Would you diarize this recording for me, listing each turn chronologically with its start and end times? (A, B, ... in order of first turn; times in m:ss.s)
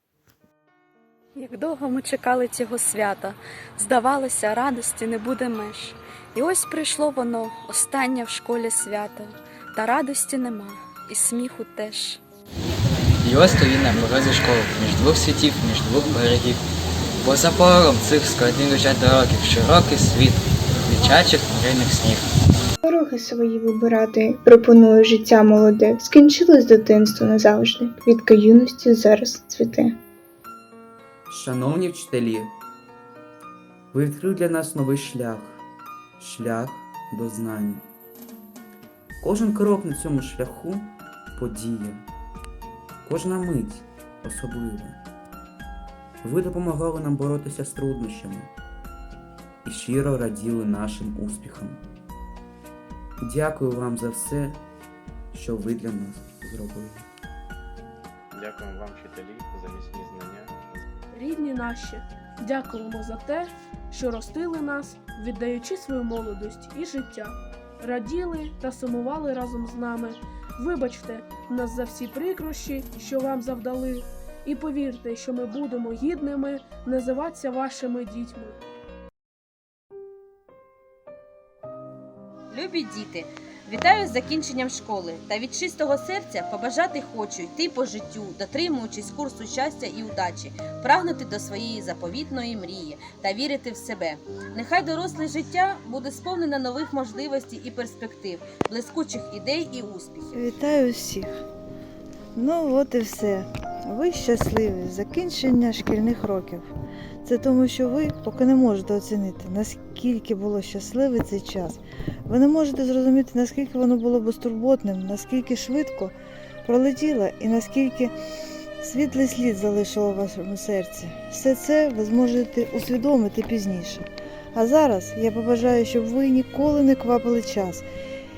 0:01.4-0:12.2 A
0:13.2-0:16.6 B
0:17.2-0:22.3 B
0:22.8-0:29.9 C
0:31.3-0:32.6 D
0:33.9-0:35.6 D
0:36.2-0:37.9 D
0:39.2-0:42.1 D
0:43.0-0:45.0 D
0:46.2-0:48.5 D
0:49.6-0:51.8 D
0:53.2-0:54.6 D
0:55.3-0:57.1 D
0:58.3-1:00.5 E
1:01.1-1:18.6 F
1:22.5-1:40.4 G
1:40.3-1:41.3 H
1:42.3-1:46.7 H
1:47.2-1:56.1 H
1:56.6-1:58.1 H
1:58.8-2:07.8 H